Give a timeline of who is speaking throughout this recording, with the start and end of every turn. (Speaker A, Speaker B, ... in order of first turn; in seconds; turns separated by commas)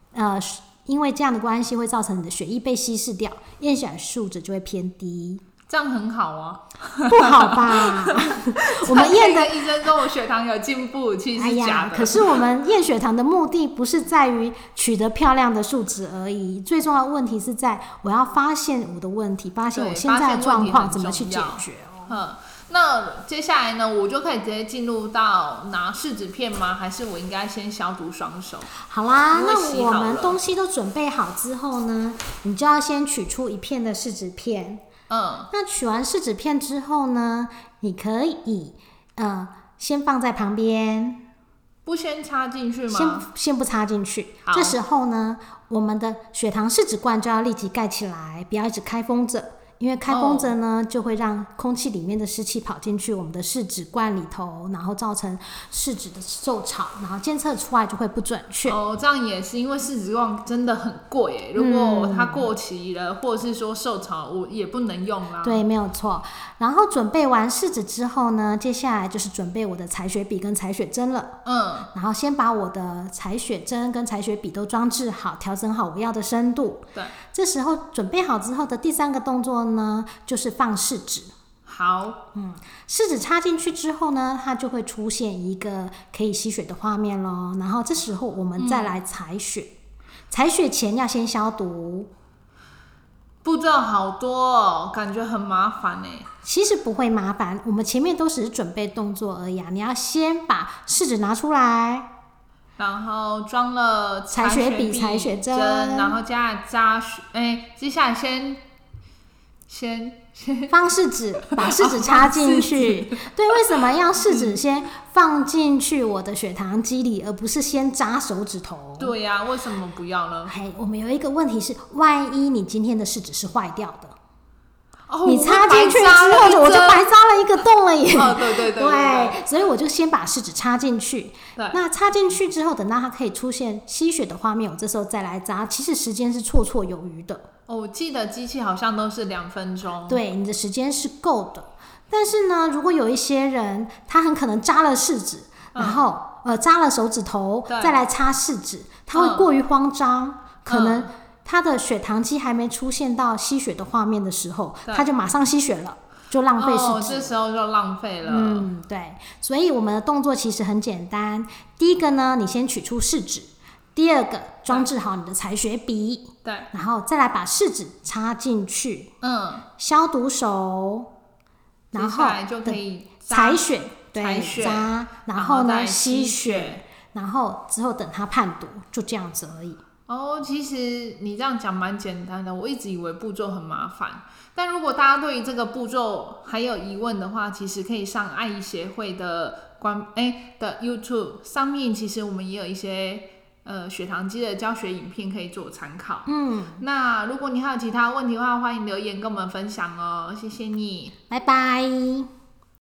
Speaker A: 0.1-5.4, Speaker B: 5.7-12.5, Speaker A: 7.1-9.9, Speaker A: 11.4-22.2, Speaker B: 19.7-28.7, Speaker A: 28.8-34.8, Speaker B: 29.3-30.4, Speaker B: 35.1-35.5, Speaker A: 35.5-41.2, Speaker B: 41.9-43.3, Speaker A: 42.9-58.8, Speaker B: 44.5-44.8, Speaker B: 50.1-50.5, Speaker B: 58.6-65.6, Speaker A: 61.6-62.5, Speaker A: 65.4-71.4, Speaker B: 71.5-71.9, Speaker A: 71.9-81.3, Speaker B: 81.7-82.2, Speaker A: 82.3-89.7, Speaker B: 88.6-89.0, Speaker A: 90.3-92.1, Speaker B: 93.4-96.3, Speaker A: 96.4-102.1, Speaker B: 102.8-108.6, Speaker A: 104.3-106.2, Speaker B: 109.7-110.8, Speaker A: 110.7-119.2, Speaker B: 111.4-113.7, Speaker B: 114.3-114.6, Speaker B: 119.0-120.5, Speaker A: 120.5-124.2, Speaker B: 125.1-127.1, Speaker A: 125.2-137.5, Speaker B: 128.1-129.4, Speaker B: 131.6-131.8, Speaker B: 137.7-140.2, Speaker A: 140.1-157.3, Speaker B: 145.7-146.1, Speaker B: 147.7-148.0, Speaker B: 149.1-149.5, Speaker B: 150.7-151.1, Speaker B: 156.6-158.7, Speaker A: 158.2-169.1, Speaker B: 169.2-169.7, Speaker A: 169.8-171.1, Speaker A: 171.9-179.8, Speaker B: 171.9-176.8, Speaker B: 180.1-201.2, Speaker A: 196.3-196.8, Speaker A: 201.3-202.3